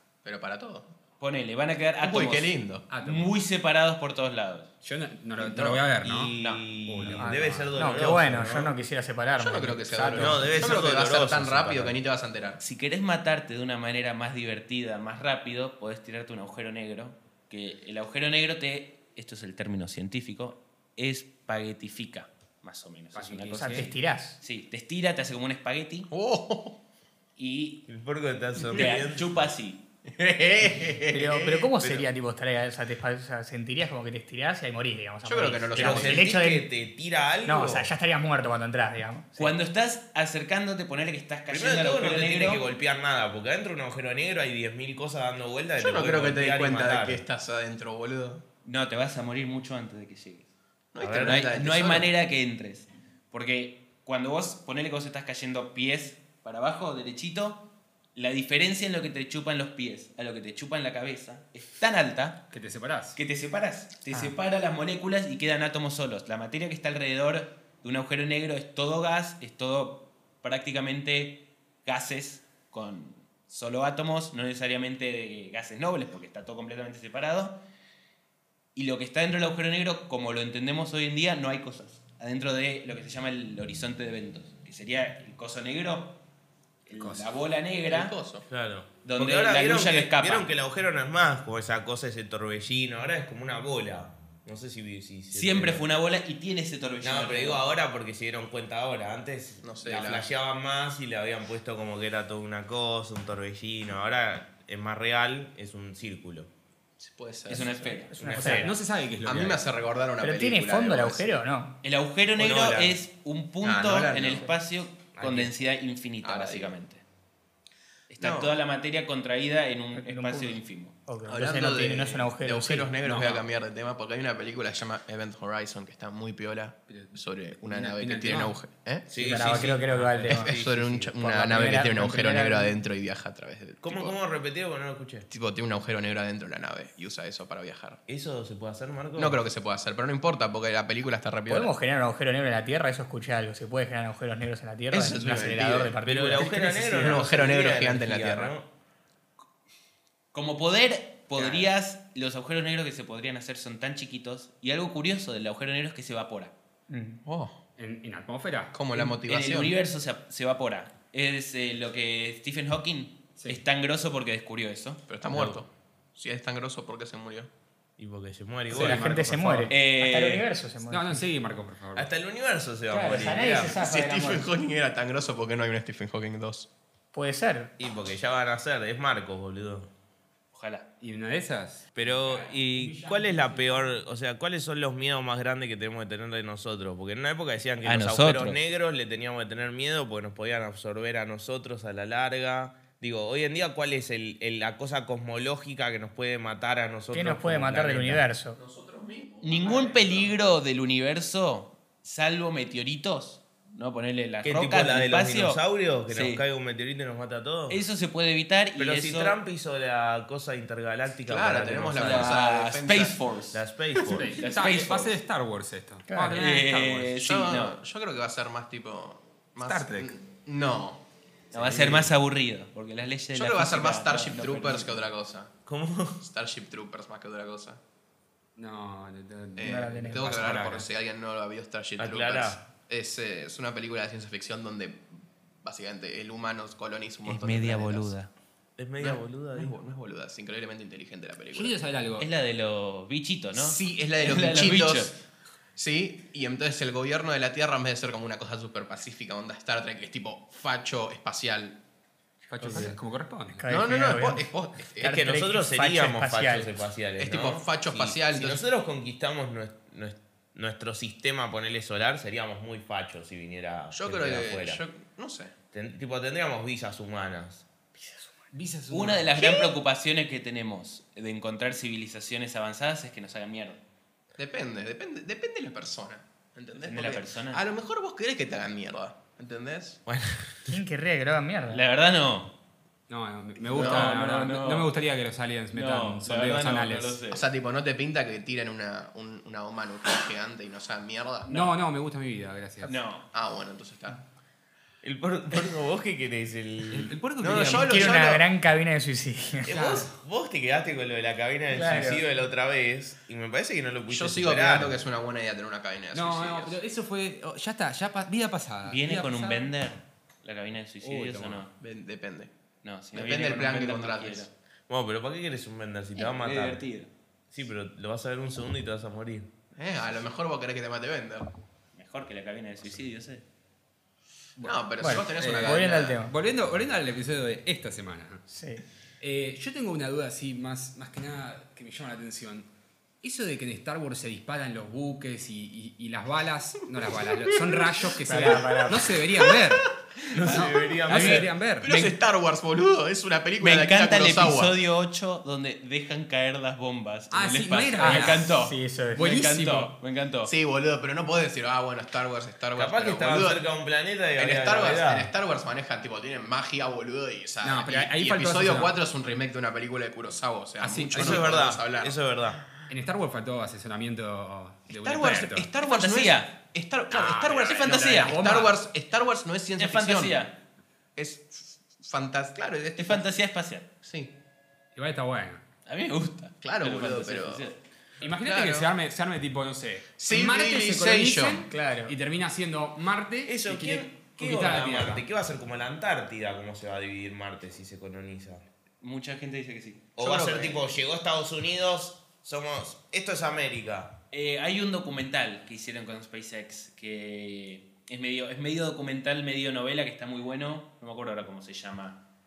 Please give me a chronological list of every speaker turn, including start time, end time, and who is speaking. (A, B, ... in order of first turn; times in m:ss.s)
0:00.2-0:00.9 A
0:01.2-0:04.7 B
0:02.0-0:02.9 A
0:02.9-0:03.3 C
0:04.8-0:06.3 C
0:05.4-0:05.8 A
0:05.5-0:08.7 D
0:06.8-0:07.7 C
0:07.2-0:10.7 E
0:09.4-0:12.6 A
0:10.1-0:12.0 D
0:12.6-0:26.1 B
0:23.2-0:23.9 C
0:23.6-0:24.4 E
0:26.1-0:26.8 A
0:27.4-0:27.9 B
0:27.9-0:29.4 D
0:28.7-0:29.8 B
0:30.1-0:31.7 A
0:31.1-0:36.7 E
0:31.8-0:32.1 D
0:35.2-0:36.3 A
0:35.8-0:37.9 D
0:35.8-0:36.1 B
0:37.5-0:39.5 E
0:39.4-0:42.6 B
0:41.5-0:47.2 D
0:45.8-0:48.4 A
0:48.6-0:50.5 B
0:50.9-0:52.1 A
0:51.0-0:51.4 D
0:51.2-0:57.6 B
0:58.2-1:02.4 B
1:02.5-1:03.2 C
1:03.2-1:17.6 B
1:18.8-1:26.2 B
1:26.9-1:28.1 B
1:27.0-1:27.3 C
1:27.9-1:28.5 A
1:28.5-1:35.9 D
1:29.0-1:30.5 B
1:35.3-1:37.6 B
1:37.0-1:46.5 D
1:39.6-1:40.3 A
1:39.9-1:40.2 C
1:47.0-1:48.1 A
1:47.5-1:48.2 B
1:48.1-1:48.8 E
1:48.2-1:48.7 D
1:48.3-1:49.6 C
1:49.2-1:51.4 A
1:50.2-1:51.8 E
1:51.8-1:57.0 B
1:52.4-1:53.0 D
1:53.6-1:54.5 A
1:56.2-1:56.8 A
1:58.1-2:01.0 B
1:58.2-1:58.6 A
2:00.0-2:02.9 E
2:01.3-2:14.2 A
2:03.0-2:03.5 C
2:06.9-2:07.2 C
2:07.7-2:08.6 C
2:09.1-2:11.1 D
2:09.1-2:10.6 E
2:09.7-2:10.5 C
2:11.2-2:12.8 E
2:13.8-2:15.3 D
2:15.3-2:18.0 A
2:18.1-2:19.4 D
2:19.2-2:21.7 A
2:21.5-2:27.2 E
2:24.9-2:28.5 A
2:26.0-2:28.7 D
2:30.3-2:36.5 B
2:36.9-2:37.2 E
2:37.2-2:37.6 A
2:37.8-2:38.8 C
2:38.7-2:39.7 A
2:39.0-2:45.0 B
2:45.1-2:47.5 A
2:45.3-2:45.6 D
2:48.0-2:49.7 D
2:48.7-2:51.2 E
2:48.7-2:49.7 C
2:49.7-2:50.5 B
2:50.9-2:52.1 C
2:52.0-2:53.8 D
2:52.9-2:54.5 E
2:53.7-2:56.7 A
2:57.1-2:57.7 E
2:57.8-2:59.9 D
3:00.5-3:00.9 B
3:01.0-3:03.9 C
3:02.0-3:18.2 D
3:07.8-3:08.6 B
3:17.1-3:18.6 E
3:18.6-3:20.4 A
3:19.4-3:26.4 B
3:24.4-3:27.8 D
3:27.7-3:29.4 B
3:28.8-3:32.4 D
3:31.3-3:33.2 A
3:32.0-3:33.6 B
3:33.5-3:34.3 D
3:34.1-3:37.2 C
3:34.4-3:35.2 B
3:36.3-3:37.8 B
3:37.2-3:41.0 A
3:39.6-3:40.1 C
3:41.5-3:45.0 B
3:41.6-3:42.0 D
3:41.6-3:42.0 A
3:43.3-3:45.5 A
3:45.7-3:46.2 D
3:46.2-3:47.8 A
3:48.6-3:50.9 C
3:49.6-3:58.1 A
3:49.6-3:50.6 E
3:52.0-3:52.6 D
3:57.2-3:58.3 B
3:58.8-3:59.7 D
3:59.0-4:01.8 A
4:01.5-4:02.3 C
4:02.2-4:05.1 B
4:03.6-4:05.2 A
4:05.8-4:11.8 A
4:12.5-4:13.7 C
4:12.6-4:12.9 E
4:12.6-4:12.9 A
4:13.5-4:16.7 E
4:13.7-4:15.2 A
4:15.0-4:24.8 D
4:17.2-4:18.6 A
4:23.9-4:25.5 A
4:25.7-4:27.6 D
4:28.0-4:28.5 E
4:28.5-4:29.4 C
4:28.9-4:33.8 B
4:29.4-4:29.7 A
4:34.4-4:40.0 A
4:36.8-4:37.6 B
4:40.1-4:40.8 D
4:40.7-4:41.8 E
4:41.7-4:42.5 B
4:43.1-4:47.2 C
4:43.7-4:44.1 A
4:43.7-4:44.9 B
4:45.7-4:47.5 B
4:47.3-4:51.5 A
4:51.4-4:51.8 B
4:51.5-4:52.9 C
4:52.8-4:53.3 B
4:53.3-4:54.2 A
4:55.0-4:57.1 D
4:56.9-4:58.2 C
4:57.4-4:58.4 A
4:57.5-4:57.8 B
4:57.7-5:00.0 E
4:59.6-5:05.0 D
4:59.7-5:00.1 C
5:01.7-5:02.3 E
5:04.1-5:06.8 A
5:06.1-5:09.7 C
5:08.8-5:11.7 B
5:11.0-5:11.6 C
5:11.8-5:12.5 A
5:12.8-5:14.5 B
5:13.1-5:14.5 A
5:14.9-5:16.8 D
5:16.2-5:17.1 B
5:17.5-5:19.5 D
5:19.8-5:21.5 A
5:21.9-5:23.4 B
5:24.6-5:26.2 A
5:25.0-5:26.3 E
5:25.1-5:28.5 C
5:28.5-5:28.8 E
5:29.2-5:32.7 C
5:33.2-5:41.9 C
5:37.5-5:39.7 A
5:38.2-5:39.2 E
5:40.3-5:41.5 D
5:40.5-5:44.8 A
5:41.1-5:42.2 B
5:43.6-5:50.5 B
5:47.3-5:48.6 C
5:48.0-5:49.4 E
5:49.2-5:49.9 C
5:50.5-5:53.6 A
5:52.8-5:55.3 D
5:54.4-6:02.2 A
5:57.6-5:58.9 C
6:00.8-6:01.6 C
6:01.2-6:02.6 D
6:02.9-6:05.7 C
6:04.9-6:10.4 A
6:05.8-6:06.5 B
6:07.1-6:08.7 C
6:07.6-6:08.3 B
6:08.2-6:08.7 E
6:09.8-6:10.6 B
6:11.2-6:13.3 A
6:13.0-6:13.9 B
6:14.0-6:14.3 A
6:15.0-6:15.6 C
6:15.9-6:17.8 B
6:16.6-6:17.7 A
6:18.2-6:25.2 C
6:18.3-6:18.9 A
6:20.2-6:21.7 A
6:21.7-6:22.1 E
6:23.5-6:28.6 D
6:29.0-6:30.1 B
6:30.2-6:34.2 D
6:30.2-6:30.8 A
6:34.3-6:42.2 B